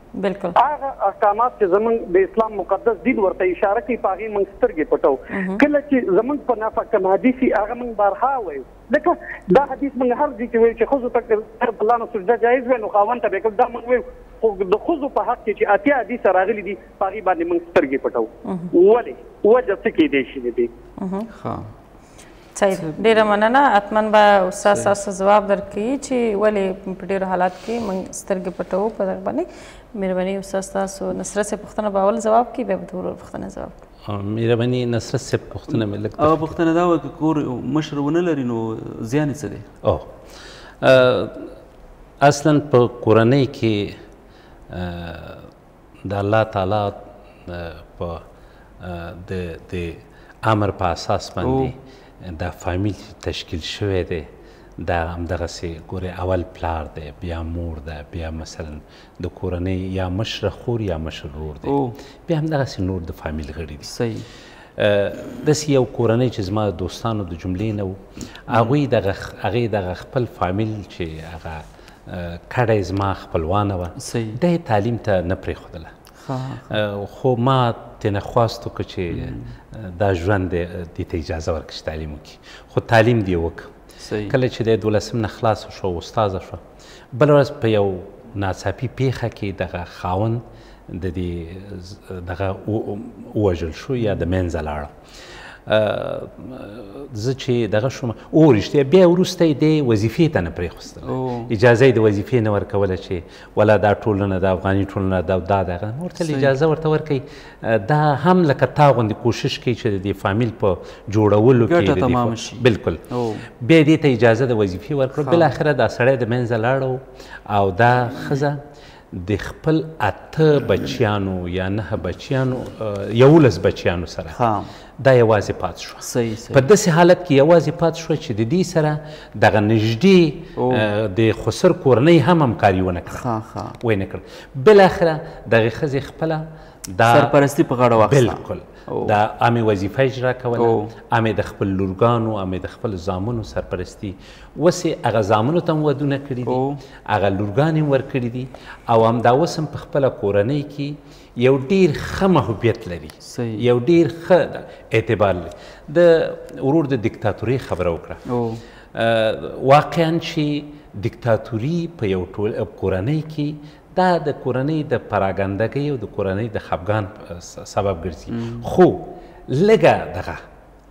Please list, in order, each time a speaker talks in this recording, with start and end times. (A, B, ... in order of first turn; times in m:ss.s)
0:00.2-0:00.6 A
0:00.6-0:20.7 B
0:05.3-0:05.6 A
0:18.4-0:18.7 A
0:21.0-0:21.3 A
0:21.3-0:21.7 C
0:22.6-0:33.8 A
0:22.8-0:23.1 C
0:24.7-0:24.9 C
0:34.0-0:36.5 D
0:36.2-0:39.6 C
0:39.8-0:40.1 D
0:40.8-0:41.5 D
0:42.2-0:44.0 D
0:44.7-0:45.5 D
0:46.0-0:48.2 D
0:48.8-1:03.9 D
0:51.4-0:51.7 C
1:01.6-1:01.9 C
1:03.9-1:04.2 C
1:04.8-1:15.9 D
1:08.5-1:08.7 C
1:14.0-1:14.4 C
1:16.2-1:16.8 C
1:16.7-1:23.7 D
1:19.1-1:19.5 C
1:24.0-1:24.4 C
1:24.3-1:34.9 D
1:35.6-1:53.0 D
1:41.0-1:41.5 C
1:46.2-1:46.5 C
1:51.6-1:53.4 C
1:53.6-2:04.4 D
1:55.2-1:55.5 C
2:04.3-2:04.7 C
2:05.0-2:13.2 D
2:06.0-2:06.6 C
2:10.6-2:10.8 C
2:13.1-2:13.8 C
2:13.8-2:17.3 D
2:17.1-2:19.1 C
2:18.0-2:38.2 D
2:20.6-2:20.9 C
2:26.4-2:26.8 C
2:33.2-2:33.7 C
2:38.3-2:38.6 C
2:38.9-2:50.4 D
2:48.3-2:48.7 C